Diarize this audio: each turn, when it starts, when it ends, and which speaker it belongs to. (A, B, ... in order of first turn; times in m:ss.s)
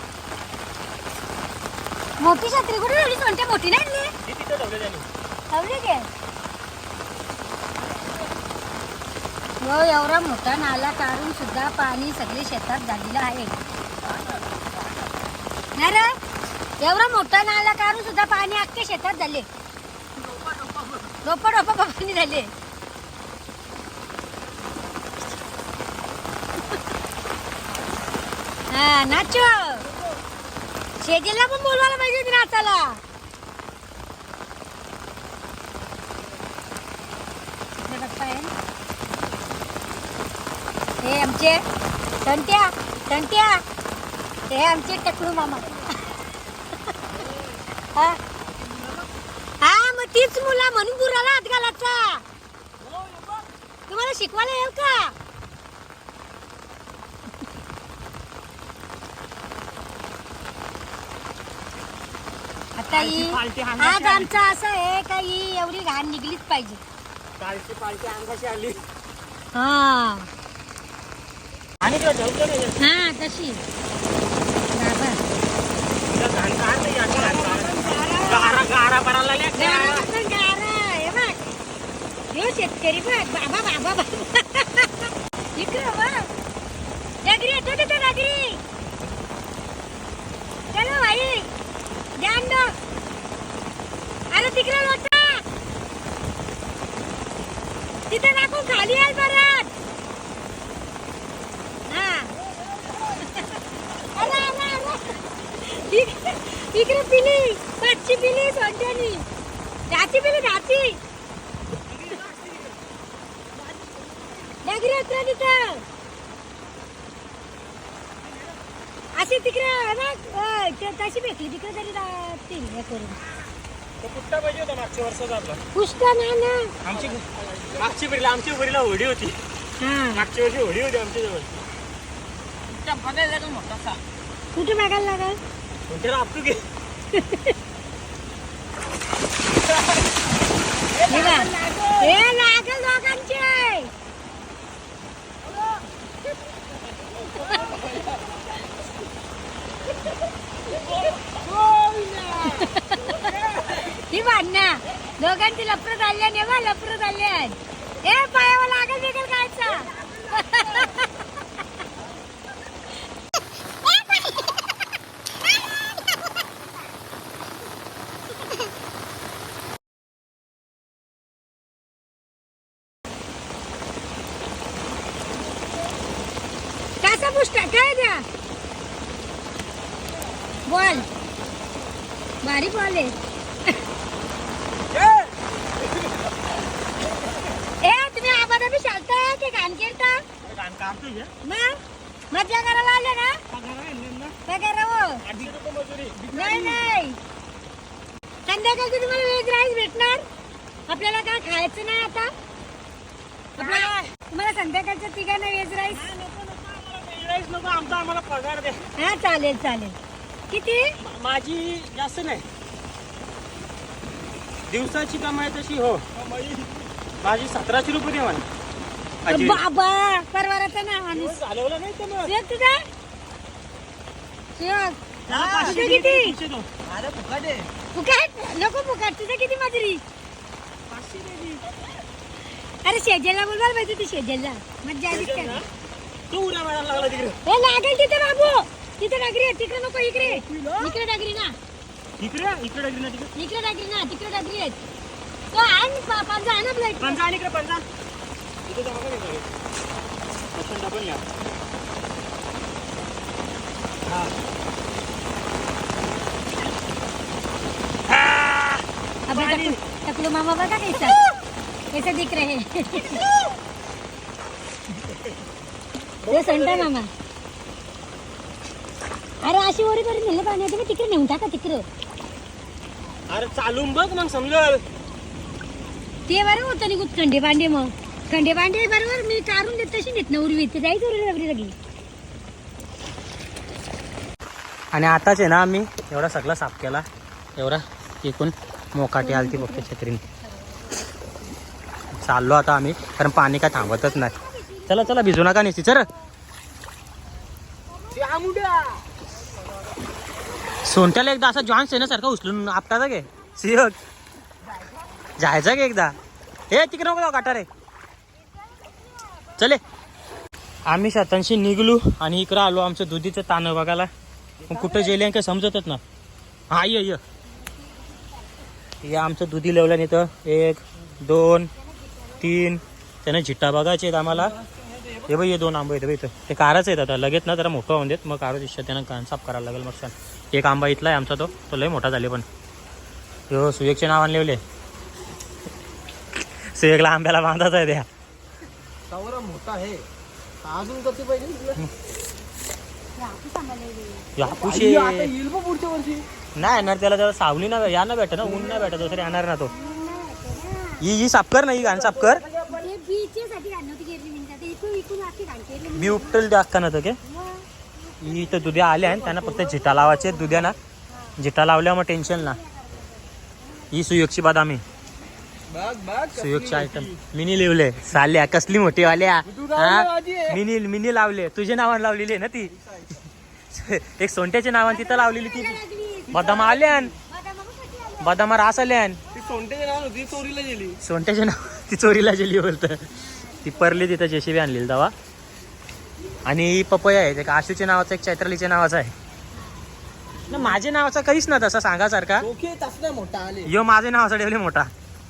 0:02.2-0:04.1 A
0:04.2-0:05.0 B
0:05.5-0:06.1 A
0:09.6-0:13.5 A
0:15.7-0:16.2 A
0:16.8-0:19.5 A
0:21.2-0:22.5 A
0:28.7-0:29.9 A
0:31.0-0:33.0 A
0:37.8-0:38.5 A
0:41.0-0:41.6 A
0:42.2-0:43.6 A
0:44.5-0:46.1 A
0:49.6-0:52.2 A
0:53.0-0:53.3 C
0:53.9-0:55.1 A
1:02.8-1:06.8 A
1:02.9-1:04.4 B
1:07.4-1:08.8 B
1:09.5-1:10.3 A
1:11.8-1:12.8 B
1:12.8-1:13.6 A
1:14.7-1:15.2 A
1:16.1-1:20.1 B
1:17.2-1:18.5 A
1:19.5-1:21.4 A
1:22.3-1:26.3 A
1:27.2-1:28.6 A
1:30.7-1:31.5 A
1:32.2-1:32.7 A
1:34.3-1:35.4 A
1:38.1-1:39.7 A
1:41.9-1:42.3 A
1:43.1-1:49.2 A
1:49.9-1:51.0 A
1:52.1-1:52.5 B
1:54.6-1:55.8 A
1:59.1-2:03.2 A
2:04.0-2:05.6 B
2:05.7-2:06.7 A
2:06.8-2:09.4 B
2:09.8-2:10.2 A
2:10.1-2:11.6 B
2:12.7-2:14.0 B
2:14.5-2:15.4 A
2:15.9-2:16.6 B
2:17.1-2:17.5 A
2:20.9-2:22.1 B
2:21.1-2:23.9 A
2:27.4-2:27.9 A
2:31.4-2:32.5 B
2:32.4-2:41.1 A
2:57.0-2:58.2 A
3:00.6-3:01.1 A
3:02.4-3:03.2 A
3:04.9-3:05.3 B
3:07.8-3:10.2 A
3:10.4-3:11.3 B
3:11.4-3:13.4 A
3:13.5-3:14.4 B
3:14.4-3:15.2 A
3:15.2-3:16.8 B
3:16.3-3:17.2 A
3:18.4-3:20.2 A
3:20.9-3:22.3 A
3:23.6-3:24.1 B
3:23.6-3:26.0 A
3:25.9-3:28.9 B
3:29.0-3:30.0 A
3:30.5-3:30.9 A
3:31.0-3:32.4 B
3:34.7-3:36.7 B
3:37.2-3:38.4 B
3:39.2-3:39.6 B
3:39.3-3:41.4 A
3:41.1-3:42.3 B
3:42.2-3:42.8 A
3:44.6-3:46.3 A
3:45.3-3:46.7 B
3:46.9-3:47.7 C
3:47.9-3:50.0 A
3:50.9-3:51.7 B
3:52.8-3:55.6 A
3:55.1-3:55.6 B
3:56.3-3:57.4 B
3:57.4-4:01.6 A
4:00.2-4:01.0 B
4:02.2-4:03.3 B
4:03.3-4:04.8 A
4:05.5-4:07.2 A
4:07.0-4:07.8 B
4:08.6-4:09.5 B
4:10.5-4:11.2 B
4:18.1-4:19.8 B
4:19.3-4:21.2 A
4:21.9-4:23.2 A
4:26.2-4:26.9 B
4:26.2-4:27.1 A
4:29.4-4:31.9 A
4:33.3-4:34.8 B
4:36.3-4:41.7 A
4:44.9-4:47.0 B
4:47.6-4:50.2 B
4:49.2-4:49.9 A
4:52.2-4:54.4 B
4:53.9-4:55.4 A
4:54.9-4:56.1 B
4:57.9-4:58.3 A
4:58.2-4:59.0 B
5:00.8-5:04.0 B
5:05.4-5:06.2 B
5:06.7-5:07.7 B
5:09.6-5:09.8 B
5:10.8-5:14.1 B
5:14.7-5:16.0 B
5:16.7-5:17.2 B
5:19.0-5:21.7 B
5:22.0-5:22.4 A
5:22.4-5:24.6 B
5:25.2-5:32.4 B
5:33.5-5:34.6 B
5:36.7-5:38.1 B
5:39.1-5:40.0 C
5:40.6-5:41.8 C
5:43.2-5:44.2 A
5:44.4-5:45.4 B
5:44.5-5:46.2 C
5:46.5-5:49.7 B
5:49.7-5:51.0 A
5:51.0-5:52.4 B
5:52.7-5:56.4 A
5:55.9-5:57.2 B
5:57.3-5:57.6 A
5:58.2-6:00.8 B
6:01.1-6:01.4 A
6:01.4-6:02.6 B
6:02.6-6:03.1 A
6:03.9-6:04.8 B
6:05.7-6:07.0 C
6:06.3-6:12.7 B
6:09.5-6:10.6 C
6:13.7-6:17.1 B
6:14.9-6:18.4 A
6:18.2-6:19.2 B
6:19.3-6:21.0 C
6:21.0-6:25.1 B
6:23.3-6:23.6 A
6:26.4-6:29.1 B
6:30.5-6:32.5 B
6:32.4-6:33.7 C
6:33.6-6:34.9 B